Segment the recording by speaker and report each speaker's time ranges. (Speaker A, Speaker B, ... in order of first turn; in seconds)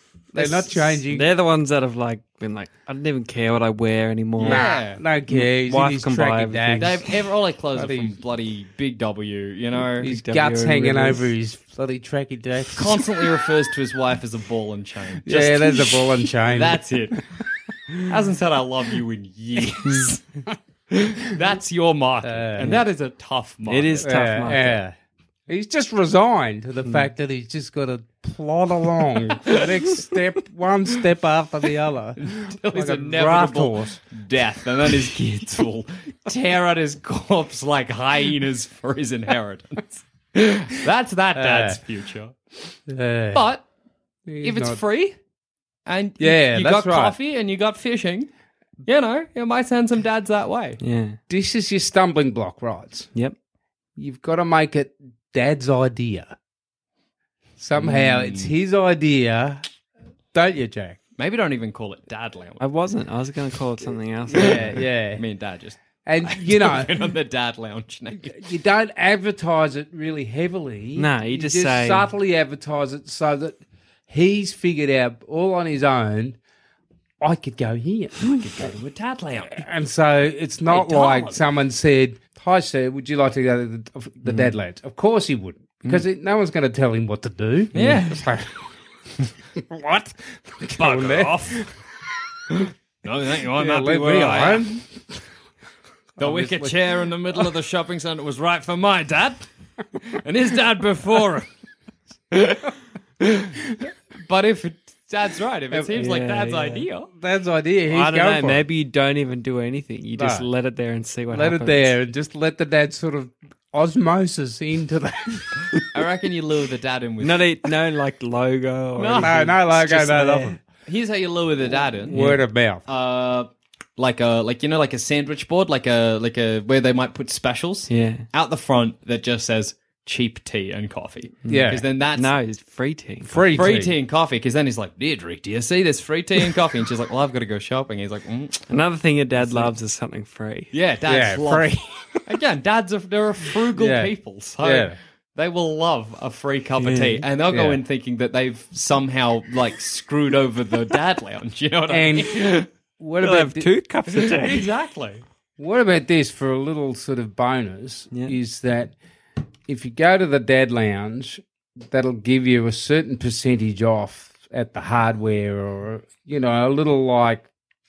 Speaker A: 0.3-1.3, 4.4-7.1, 7.7-8.2, 10.0-13.2, 15.3-16.9, 22.2-22.8, 24.0-24.9, 25.5-32.2, 32.7-34.0, 41.4-41.8, 42.9-43.4, 44.3-44.8, 46.2-47.1, 51.3-53.1, 54.0-56.4, 57.6-59.6, 60.3-61.0, 64.3-65.2, 66.0-66.9, 68.3-76.4, 77.2-78.7, 79.6-88.7, 89.6-91.7, 93.5-95.0, 96.2-97.0, 107.2-108.6, 110.2-110.5, 111.3-115.8, 119.1-120.6, 122.1-122.8, 131.5-131.8, 133.2-133.9, 141.1-142.2, 143.8-145.0, 147.5-147.8, 151.9-153.7, 155.6-159.0, 159.7-167.5
Speaker B: 0.4-4.8, 5.3-7.0, 10.0-11.3, 23.7-24.8, 35.0-35.7, 50.8-51.2, 62.6-64.8, 71.0-72.1, 84.2-84.5, 106.0-106.9, 107.9-111.9, 117.2-120.6, 122.1-122.4, 127.9-128.3, 131.4-133.7, 138.7-140.7, 146.8-147.3, 153.2-154.7
Speaker C: 4.4-5.0, 6.8-10.1, 12.8-17.2, 18.1-20.2, 20.9-24.2, 32.2-42.8, 43.3-43.6, 44.4-45.2, 45.9-48.3, 48.9-50.8, 57.8-58.5, 61.2-62.6, 64.3-68.5, 78.4-79.7, 80.7-81.4, 87.7-88.2, 90.8-91.7, 93.0-94.8, 96.2-99.5, 100.0-101.5, 102.3-103.5, 104.2-107.1, 115.9-117.5, 119.0-119.3, 120.8-122.2, 122.9-132.4, 133.5-138.7, 139.4-139.7, 140.7-141.7, 142.3-152.6, 154.2-155.2